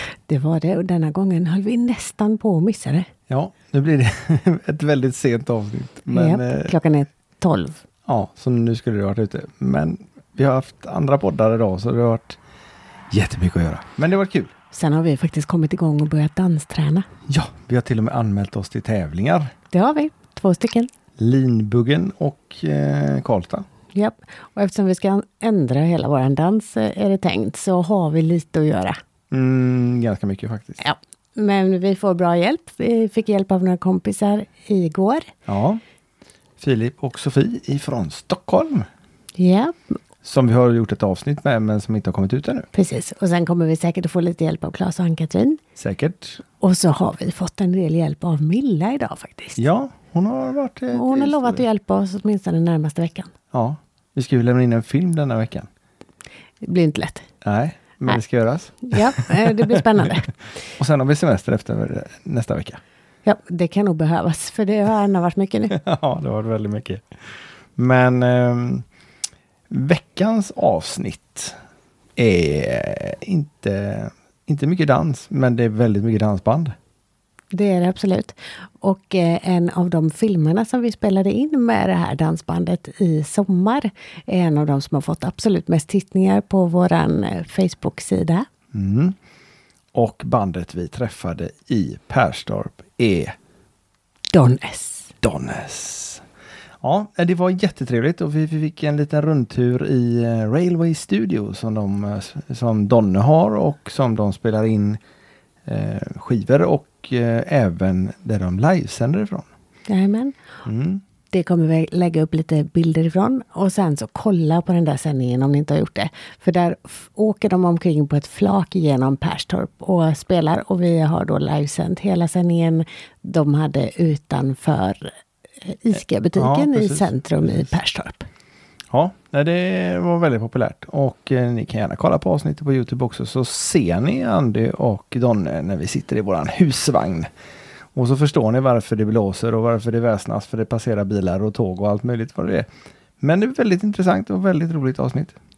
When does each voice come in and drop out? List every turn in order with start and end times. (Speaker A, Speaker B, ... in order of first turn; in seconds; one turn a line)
Speaker A: 0.3-3.1
Speaker B: 3.3-6.7
Speaker A: 6.1-7.8
Speaker B: 8.1-12.4
Speaker B: 13.1-14.5
Speaker A: 14.7-17.1
Speaker B: 17.3-19.5
Speaker A: 19.7-20.9
Speaker B: 21.2-23.6
Speaker A: 23.9-29.0
Speaker B: 29.3-30.8
Speaker A: 30.8-35.2
Speaker B: 35.5-35.8
Speaker B: 36.6-38.9
Speaker A: 39.4-39.9
Speaker B: 40.2-42.7
Speaker A: 42.7-45.6
Speaker B: 45.8-46.4
Speaker A: 46.6-49.6
Speaker B: 49.6-51.6
Speaker A: 50.9-53.3
Speaker B: 53.5-55.7
Speaker A: 56.6-57.2
Speaker B: 57.4-59.4
Speaker A: 58.9-60.3
Speaker B: 60.8-62.8
Speaker A: 63.2-65.8
Speaker B: 65.7-67.0
Speaker B: 67.8-68.8
Speaker B: 69.7-71.5
Speaker B: 72.2-76.7
Speaker A: 77.5-88.5
Speaker B: 88.7-89.2
Speaker B: 89.9-93.3
Speaker A: 94.3-95.1
Speaker B: 95.2-96.2
Speaker B: 96.8-105.0
Speaker B: 105.7-109.5
Speaker A: 109.9-110.3
Speaker B: 110.6-111.0
Speaker A: 111.3-125.1
Speaker A: 125.6-128.2
Speaker B: 126.4-127.1
Speaker B: 128.9-137.3
Speaker B: 137.9-142.7
Speaker B: 143.2-145.3